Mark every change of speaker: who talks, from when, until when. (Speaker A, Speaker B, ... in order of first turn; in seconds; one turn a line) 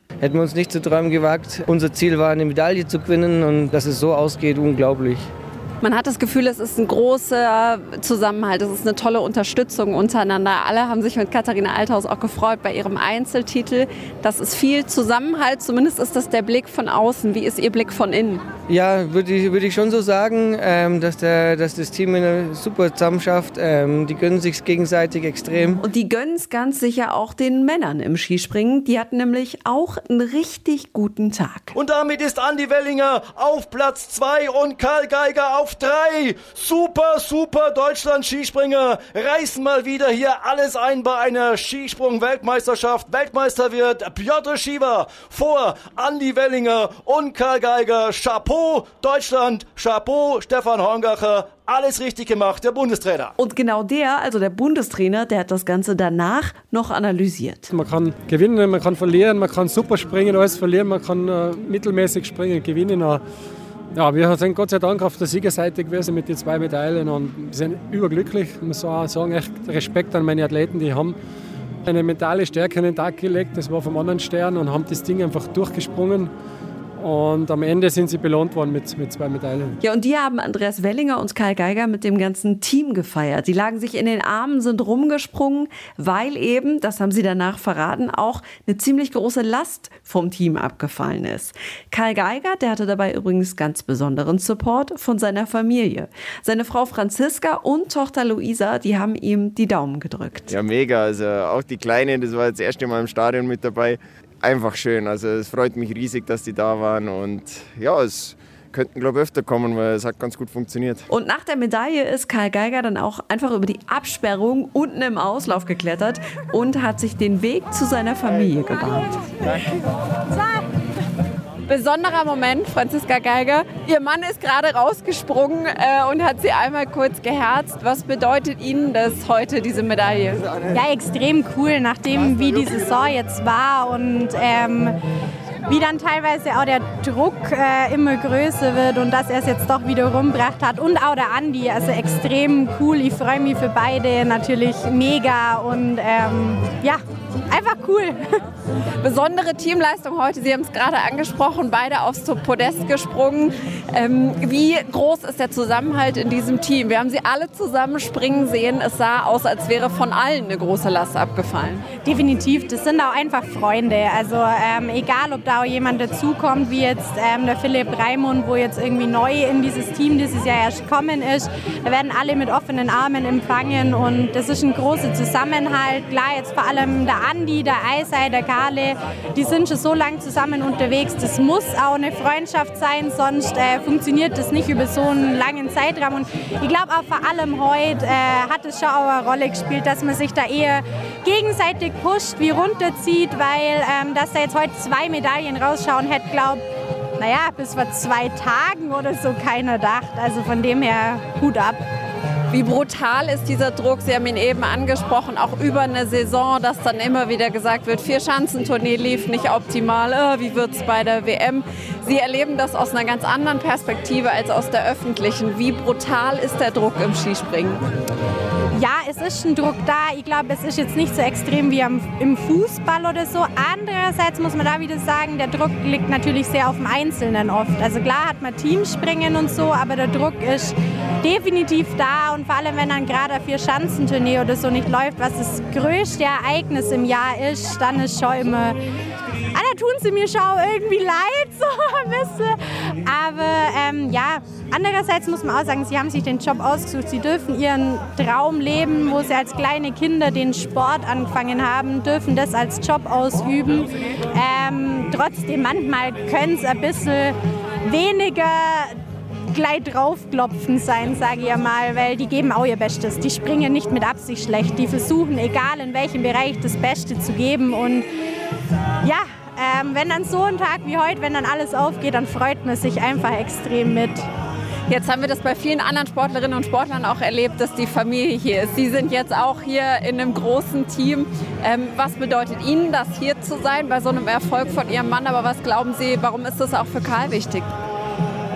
Speaker A: 0.2-5.3
Speaker B: 5.9-9.4
Speaker C: 7.8-8.4
Speaker C: 9.4-18.4
Speaker B: 16.9-17.1
Speaker A: 18.7-25.8
Speaker C: 25.8-31.7
Speaker D: 31.7-53.3
Speaker C: 53.4-57.7
Speaker E: 57.7-63.2
Speaker E: 63.9-71.1
Speaker E: 71.8-76.3
Speaker E: 77.0-79.8
Speaker C: 79.8-100.5
Speaker F: 100.5-111.0
Speaker C: 111.1-119.2
Speaker B: 121.7-130.4
Speaker C: 129.2-129.7
Speaker G: 130.7-135.0
Speaker G: 135.7-148.2
Speaker B: 149.0-161.6
Speaker C: 154.0-155.5
Speaker C: 157.6-157.9
Speaker G: 162.0-196.6
Speaker G: 197.2-201.8
Speaker B: 202.5-217.5
Speaker C: 210.7-211.3
Speaker C: 215.5-217.8
Speaker G: 218.7-238.8
Speaker G: 239.5-258.9
Speaker G: 259.5-268.0
Speaker G: 269.0-274.2
Speaker C: 274.9-275.8
Speaker B: 275.1-287.6
Speaker C: 276.5-277.8
Speaker C: 278.7-279.1